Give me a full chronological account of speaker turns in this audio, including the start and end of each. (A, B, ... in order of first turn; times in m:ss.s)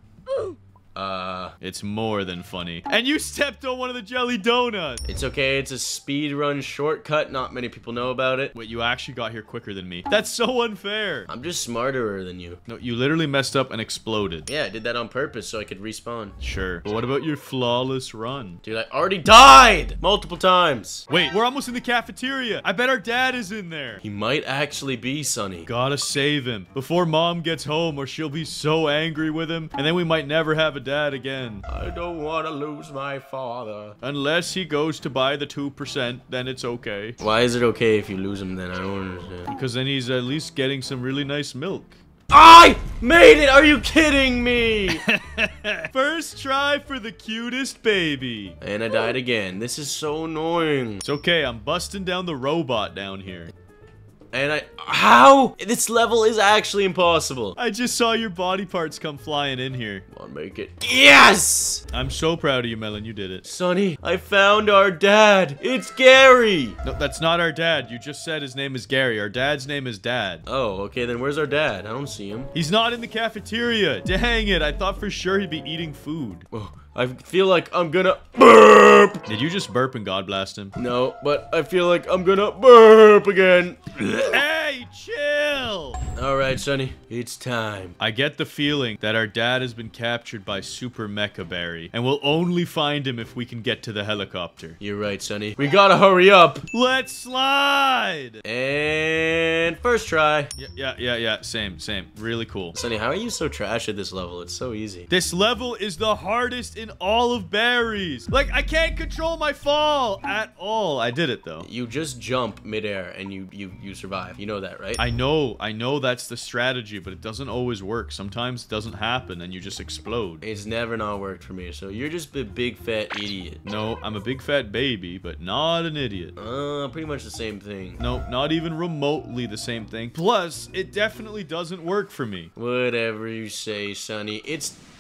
0:00.3-0:01.5 A
0:01.6-0:05.0 B
0:05.0-0:08.5 A
0:08.5-0:11.3 B
0:11.3-0:12.6 A
0:12.7-0:14.5 B
0:14.4-0:16.4 A
0:16.4-0:18.6 B
0:18.6-0:21.1 A
0:21.1-0:24.0 B
0:24.0-0:25.7 A
0:25.7-0:31.6 B
0:31.7-0:34.0 A
0:34.0-0:37.2 B
0:37.2-0:39.5 A
0:39.5-0:42.0 B
0:42.3-0:45.0 A
0:44.9-0:48.6 B
0:48.6-0:51.0 A
0:51.0-0:53.5 B
0:54.3-0:57.6 A
0:57.6-1:00.0 B
1:00.1-1:01.8 A
1:01.9-1:03.4 B
1:03.4-1:06.8 A
1:06.8-1:10.4 B
1:10.4-1:12.5 A
1:12.5-1:16.4 B
1:16.5-1:19.2 A
1:19.2-1:20.8 B
1:20.8-1:24.4 A
1:24.3-1:26.0 B
1:26.2-1:28.0 A
1:28.0-1:34.8 B
1:34.8-1:36.6 A
1:36.7-1:38.4 B
1:38.4-1:40.5 A
1:40.6-1:42.7 B
1:42.7-1:45.1 A
1:45.1-1:51.7 B
1:51.6-1:55.0 A
1:55.0-2:00.4 B
2:00.4-2:03.6 A
2:03.6-2:06.3 B
2:06.4-2:08.0 A
2:08.0-2:12.5 B
2:12.6-2:14.8 A